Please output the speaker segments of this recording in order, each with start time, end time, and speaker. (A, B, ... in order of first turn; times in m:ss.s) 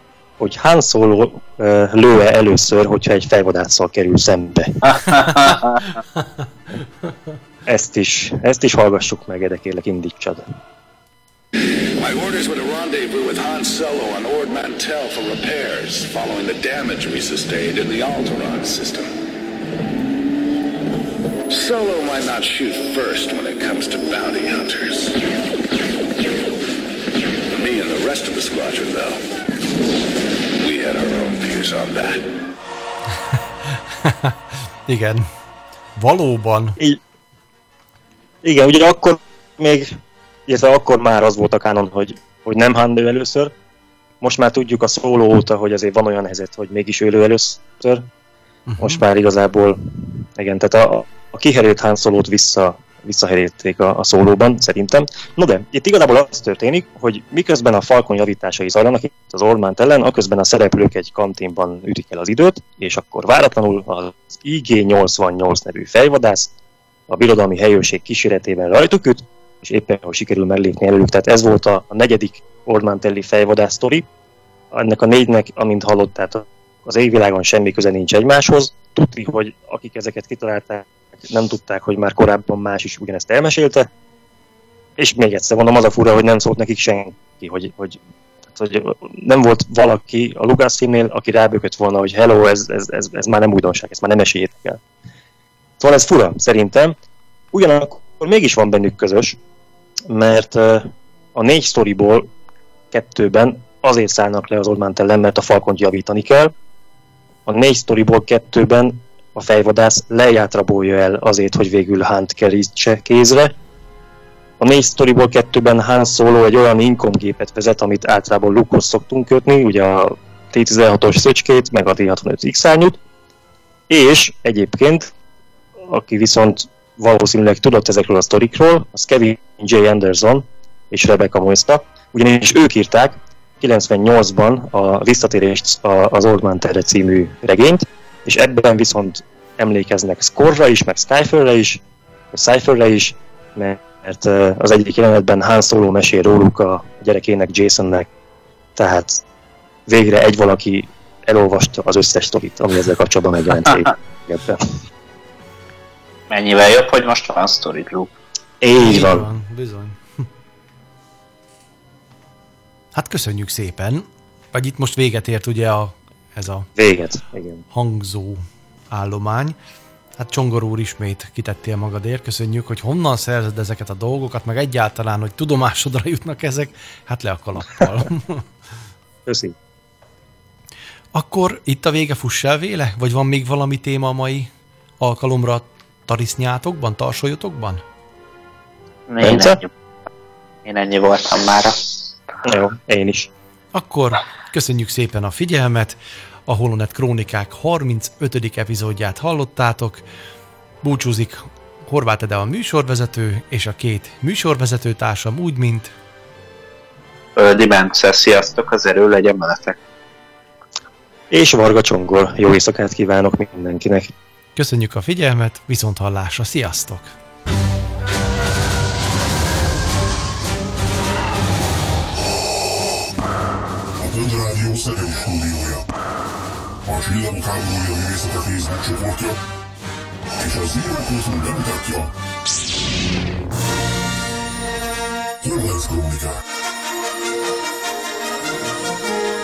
0:00.4-0:04.8 A
0:04.8-0:05.8 B
0:07.6-0:10.4 A
0:12.0-0:19.1 C
0:21.5-0:25.2 C
0:27.5-0:29.2 C
0:30.6-0:32.2 C
0:34.0-0:34.3 D
0:34.9-0:35.2 D
0:36.0-0:36.8 D
0:38.4-0:39.9 A
0:40.5-0:43.5 A
0:44.2-0:48.0 A
0:48.7-0:49.0 D
0:48.8-1:06.5 A
1:07.1-1:14.1 A
1:14.7-1:23.9 A
1:25.0-1:28.0 A
1:28.5-1:34.8 A
1:35.8-1:37.0 A
1:37.5-1:39.4 A
1:40.1-1:42.3 A
1:42.9-1:46.5 A
1:47.4-1:53.5 A
1:54.6-2:03.0 A
2:03.9-2:05.1 A
2:05.8-2:28.1 A
2:28.8-2:29.2 A
2:29.9-2:34.6 A
2:36.3-2:38.1 B
2:38.6-2:39.2 A
2:38.8-2:40.0 D
2:42.9-2:46.7 D
2:46.8-2:47.6 A
2:47.7-2:49.6 D
2:50.2-2:58.5 D
2:59.2-2:59.5 A
3:01.1-3:04.5 D
3:05.0-3:07.8 D
3:09.1-3:09.7 B
3:09.2-3:09.6 A
3:10.6-3:11.8 B
3:12.4-3:13.3 A
3:13.7-3:16.0 D
3:16.5-3:20.0 D
3:20.8-3:25.9 D
3:27.4-3:29.8 B
3:31.3-3:34.1 A
3:34.6-3:37.1 D
3:44.0-3:45.9 E
3:46.8-3:49.4 E
3:50.3-3:52.1 E
3:55.4-3:56.4 E